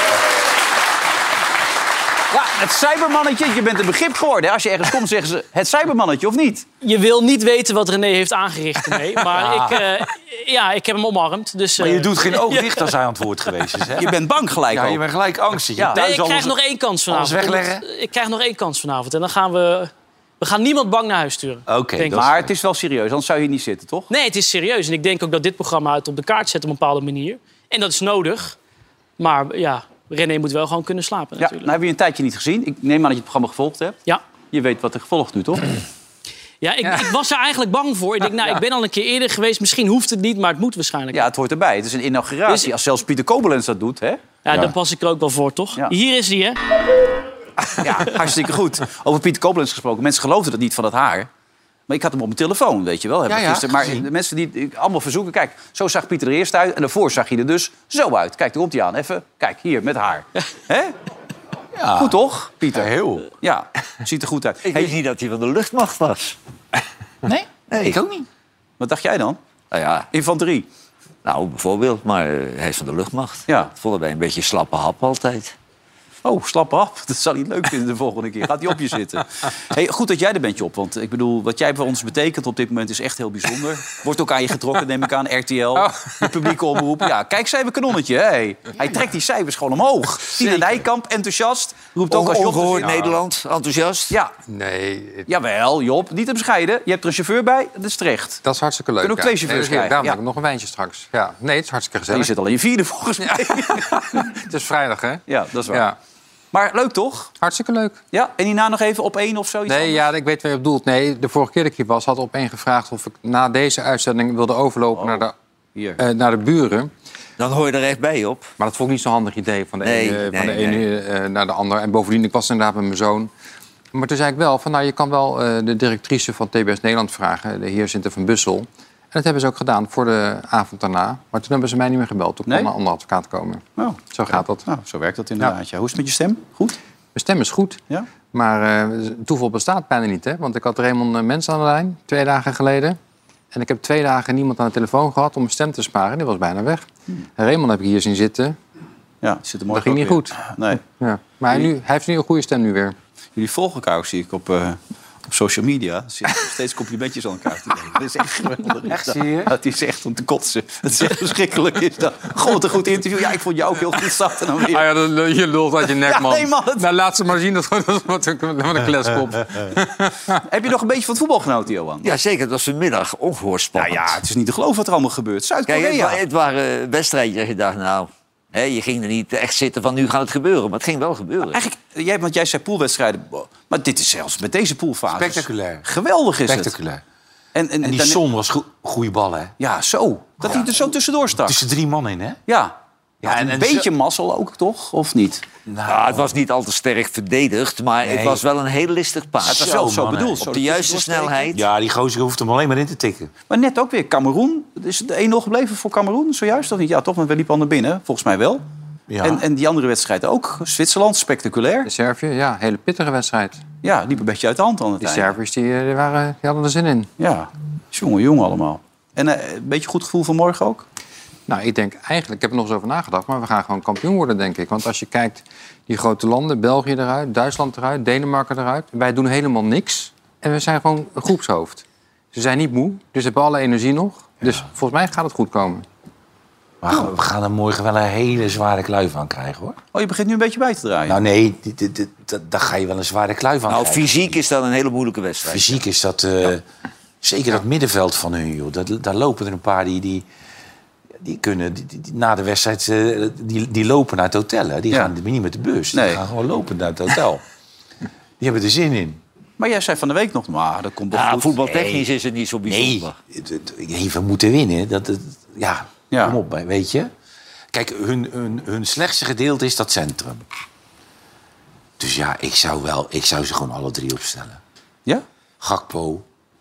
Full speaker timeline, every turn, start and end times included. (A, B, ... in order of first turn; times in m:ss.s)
0:02.3-0:06.7 A
0:06.8-0:12.9 B
0:09.2-0:09.9 C
0:11.8-0:14.1 C
0:14.0-0:15.0 A
0:14.7-0:16.6 C
0:16.0-0:22.3 B
0:17.1-0:17.8 C
0:21.7-0:22.5 C
0:22.1-0:24.1 A
0:24.1-0:28.6 B
0:29.2-0:31.7 B
0:31.4-0:34.0 A
0:34.5-0:35.7 A
0:36.6-0:41.2 B
0:41.1-0:44.2 A
0:44.4-0:46.6 B
0:47.8-0:51.3 A
0:51.9-1:01.0 A
0:53.3-0:54.1 C
1:01.8-1:02.2 C
1:02.0-1:04.9 A
1:02.7-1:03.3 C
1:04.6-1:06.4 D
1:07.2-1:08.3 C
1:07.7-1:08.0 D
1:08.8-1:09.4 A
1:09.7-1:10.1 D
1:10.1-1:10.7 A
1:11.2-1:15.6 D
1:16.2-1:33.2 A
1:25.8-1:26.3 E
1:32.1-1:34.2 D
1:34.5-1:35.3 E
1:35.3-1:38.4 A
1:38.4-1:42.3 E
1:39.0-1:40.2 A
1:42.1-1:44.3 A
1:43.2-1:46.0 E
1:45.3-1:45.9 A
1:46.5-1:47.3 A
1:47.4-1:48.0 E
1:48.1-1:50.1 A
1:49.7-1:55.3 E
1:54.9-1:55.2 A
1:55.8-1:56.0 A
1:56.0-1:56.9 E
1:57.4-1:58.5 D
1:58.6-2:03.3 E
1:59.8-2:00.8 D
2:03.9-2:14.7 E
2:13.8-2:16.8 A
2:17.2-2:17.8 E
2:18.3-2:23.0 E
2:23.5-2:28.6 E
2:29.2-2:30.8 A
2:29.7-2:33.0 E
2:33.4-2:44.9 A
2:38.9-2:39.5 C
2:44.7-2:50.4 E
2:45.8-2:46.9 A
2:50.4-2:52.1 A
2:52.0-2:54.2 D
2:53.8-2:56.2 A
2:55.7-3:01.6 D
3:01.5-3:06.7 A
3:05.1-3:05.9 C
3:06.5-3:07.0 C
3:07.6-3:08.2 A
3:07.8-3:09.5 C
3:09.6-3:11.6 A
3:10.4-3:10.7 C
3:11.4-3:12.4 C
3:12.5-3:15.4 A
3:13.2-3:13.9 C
3:15.7-3:16.3 C
3:15.9-3:19.7 D
3:18.0-3:18.4 C
3:19.4-3:20.5 C
3:19.5-3:21.5 A
3:20.4-3:21.6 D
3:21.5-3:23.3 C
3:23.5-3:28.6 A
3:29.1-3:29.4 C
3:29.2-3:31.9 A
3:31.9-3:33.6 E
3:33.8-3:35.3 A
3:35.0-3:37.1 E
3:37.2-3:40.9 A
3:41.5-3:55.9 E
3:56.8-3:59.8 C
3:59.9-4:01.2 A
4:01.1-4:04.4 C
4:03.7-4:05.8 D
4:05.5-4:06.6 C
4:07.2-4:10.2 C
4:11.2-4:17.4 C
4:15.9-4:16.2 A
4:18.4-4:19.2 C
4:19.6-4:21.5 A
4:21.1-4:23.2 D
4:21.7-4:22.1 C
4:22.7-4:27.1 C
4:26.1-4:26.4 A
4:27.7-4:30.4 C
4:32.0-4:34.6 C
4:35.6-4:36.2 C